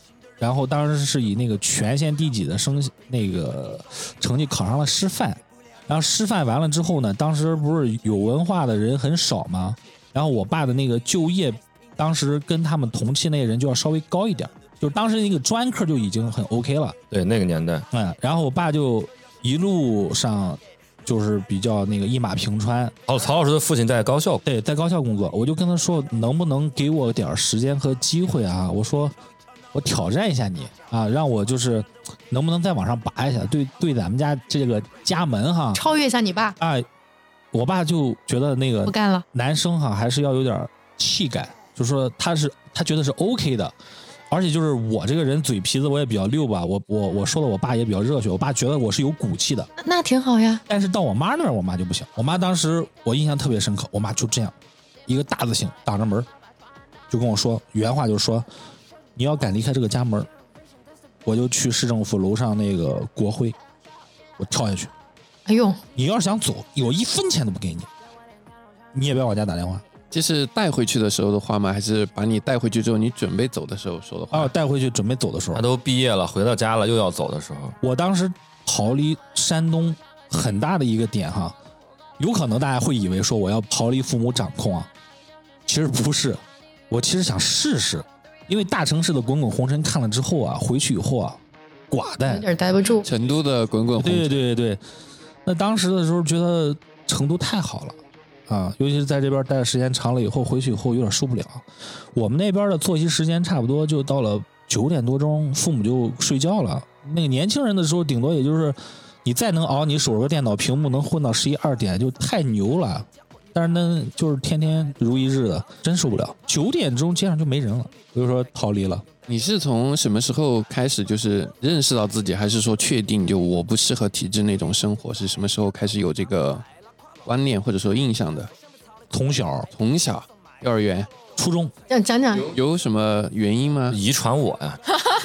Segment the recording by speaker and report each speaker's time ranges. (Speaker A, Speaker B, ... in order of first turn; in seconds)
Speaker A: 0.4-17.0, 17.9-22.9, 24.5-29.1, 29.7-35.8, 36.6-36.9, 37.5-43.8, 44.3-49.7, 50.7-54.5, 55.1-56.3, 57.1-58.5, 59.2-60.3, 61.2-63.6, 64.4-64.9, 66.0-67.9, 68.9-69.8, 74.3-75.7, 77.8-81.6, 82.2-84.9, 85.7-91.4, 91.9-92.5, 94.0-94.8, 95.5-119.0, 129.1-129.7, 131.4-131.7
Speaker B: 17.1-17.9, 23.1-24.4, 75.5-77.8, 133.9-134.8
Speaker C: 35.7-36.5, 38.9-39.2, 49.8-50.6, 65.5-65.8, 92.3-93.1, 131.9-132.5
Speaker D: 70.1-74.5, 93.0-94.3, 119.3-126.6, 127.2-128.5, 129.7-131.1, 132.3-134.0